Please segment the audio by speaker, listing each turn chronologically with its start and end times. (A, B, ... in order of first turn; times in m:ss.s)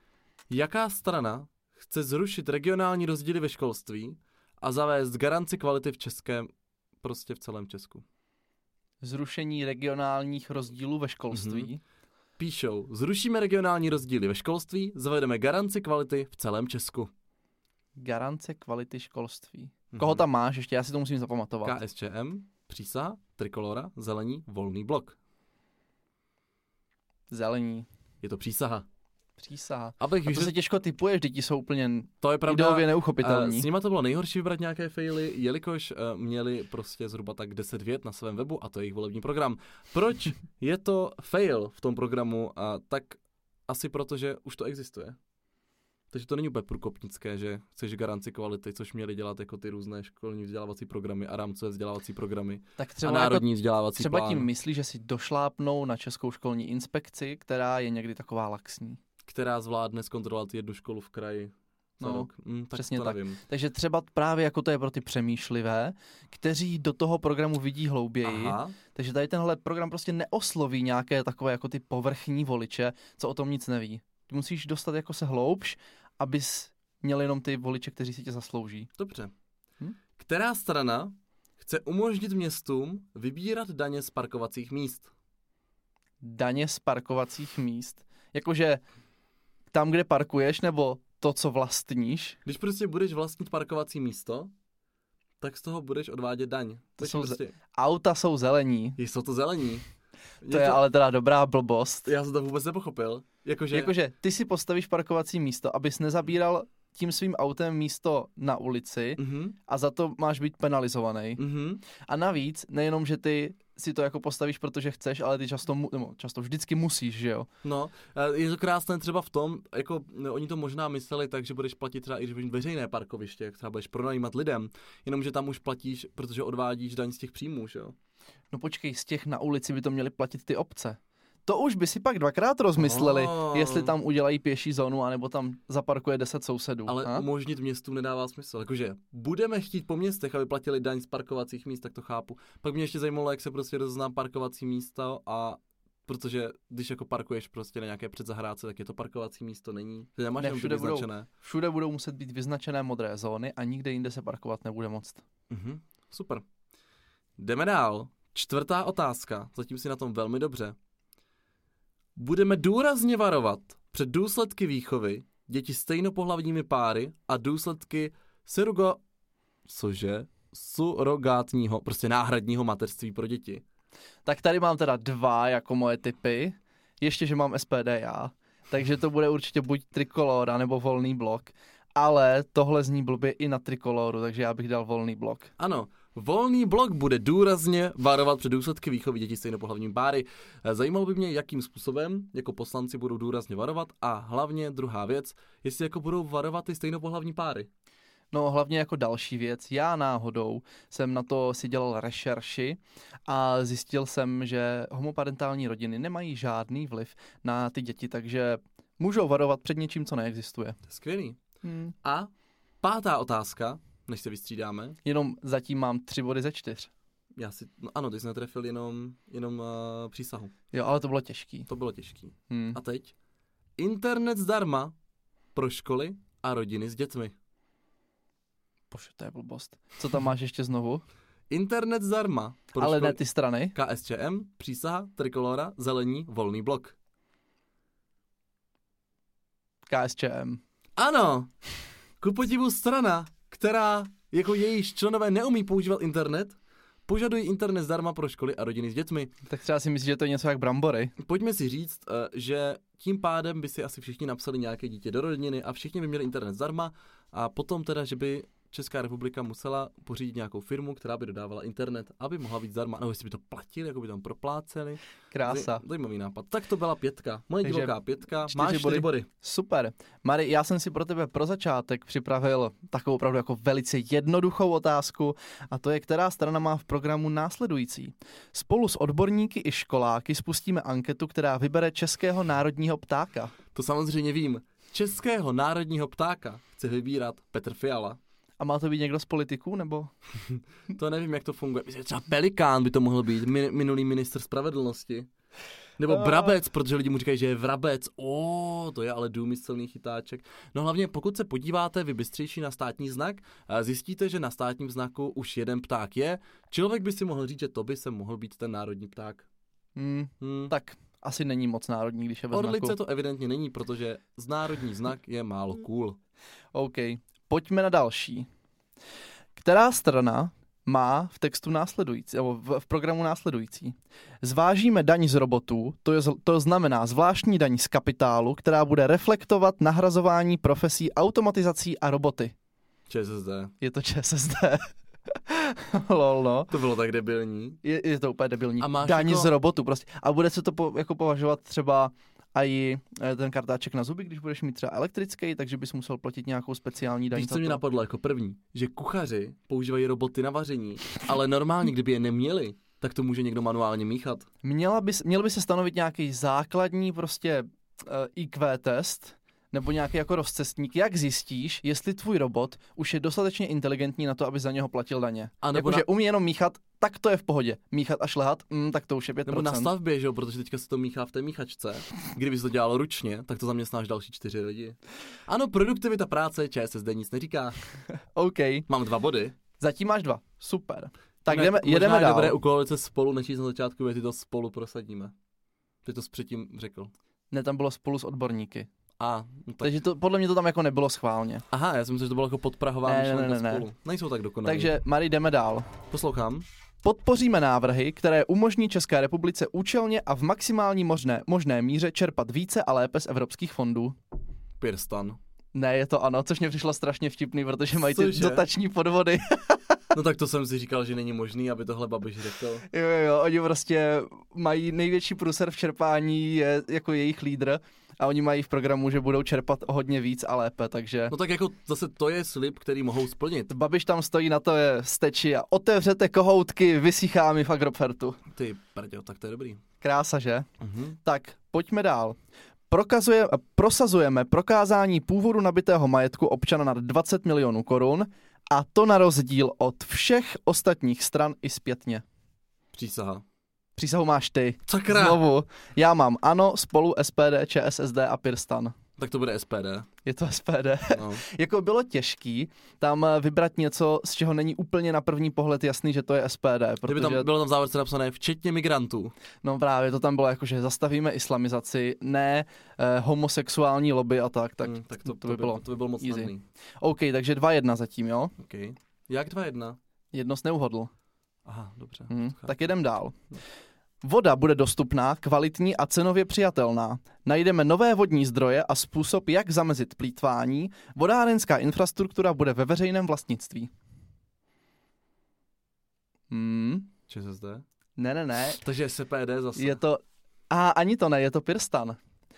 0:00.5-0:08.0 A
0:09.0-0:11.8 B
0:11.3-0:11.7 A
0:12.4-0:17.1 A
0:18.0-0:21.8 B
0:19.9-0:20.2 A
0:21.6-0:25.2 A
0:27.3-0:27.8 B
0:28.2-0:28.8 A
0:29.4-0:33.7 B
0:30.0-0:30.5 A
0:32.2-0:45.2 A
0:46.1-0:54.5 A
0:52.8-0:59.0 B
0:59.2-1:03.4 A
1:02.0-1:18.9 B
1:08.2-1:08.8 A
1:19.0-1:19.3 A
1:20.2-1:25.1 A
1:26.2-1:28.8 B
1:29.7-1:32.4 B
1:32.4-1:34.5 A
1:35.4-1:37.5 A
1:37.0-1:39.0 B
1:39.0-1:39.8 A
1:40.4-1:40.8 A
1:40.5-1:42.1 B
1:42.0-1:43.9 A
1:43.7-1:51.4 B
1:49.2-1:49.6 A
1:51.4-1:51.8 A
1:52.0-1:57.5 B
1:57.6-2:08.0 A
2:08.5-2:17.2 B
2:12.8-2:14.0 A
2:16.9-2:31.3 A
2:30.4-2:35.2 B
2:35.5-2:36.4 A
2:37.4-2:40.8 A
2:42.2-2:49.0 A
2:49.6-2:53.6 A
2:54.2-3:05.5 B
3:05.6-3:17.7 A
3:18.3-3:30.8 B
3:30.8-3:31.4 A
3:31.6-3:31.9 B
3:32.0-3:32.3 A
3:32.8-3:35.0 A
3:35.0-3:36.9 B
3:37.3-3:40.5 A
3:40.7-3:41.7 B
3:41.7-3:43.1 A
3:42.5-3:42.8 B
3:43.8-3:44.9 A
3:45.5-3:47.3 A
3:48.9-3:51.0 B
3:51.5-3:53.2 A
3:52.8-3:53.7 B
3:53.7-3:56.9 A
3:59.9-4:00.6 B
4:01.0-4:01.5 A
4:02.2-4:09.3 A
4:09.4-4:11.1 B
4:11.2-4:29.3 A
4:25.3-4:25.8 B
4:27.6-4:43.5 B
4:43.7-4:48.2 A
4:48.6-4:50.1 B
4:50.4-4:55.3 A
4:56.0-5:09.4 A
5:10.0-5:13.0 B
5:10.4-5:10.7 A
5:12.5-5:16.2 A
5:16.7-5:18.5 B
5:19.6-5:32.5 B
5:33.1-5:33.7 A
5:33.8-5:36.7 B
5:36.7-5:37.8 A
5:37.8-5:47.8 B
5:38.8-5:39.5 A
5:47.3-5:54.5 A
5:54.6-6:09.9 B
6:05.6-6:06.0 A
6:09.4-6:17.8 A
6:18.3-6:18.9 B
6:18.9-6:19.6 A
6:19.8-6:22.6 B
6:21.5-6:25.3 A
6:26.0-6:27.1 A
6:27.5-6:28.9 B
6:29.2-6:29.9 A
6:29.8-6:31.6 B
6:31.7-6:34.9 A
6:33.0-6:33.9 B
6:34.6-6:35.9 B
6:36.1-6:36.6 A
6:37.0-6:44.2 B
6:44.8-6:45.4 A
6:45.7-6:49.8 B
6:48.0-6:48.7 A
6:50.1-6:52.8 A
6:52.9-7:01.4 B
7:01.3-7:03.7 A
7:03.7-7:08.4 B
7:08.5-7:09.8 A
7:10.0-7:10.7 B
7:10.8-7:11.2 A
7:11.2-7:12.4 B
7:12.9-7:22.2 B
7:22.9-7:23.4 A
7:24.0-7:28.9 B
7:24.9-7:25.4 A
7:29.2-7:30.1 A
7:30.2-7:37.5 B
7:31.1-7:31.4 A
7:37.1-7:39.3 A
7:39.6-7:48.5 B
7:44.8-7:46.6 A
7:48.6-7:50.0 A
7:50.3-7:51.1 B
7:51.6-7:52.8 A
7:52.3-7:53.4 B
7:54.2-8:03.9 B
8:06.5-8:07.1 B
8:07.3-8:07.8 A
8:08.2-8:08.8 B
8:08.8-8:10.0 A
8:09.8-8:12.2 B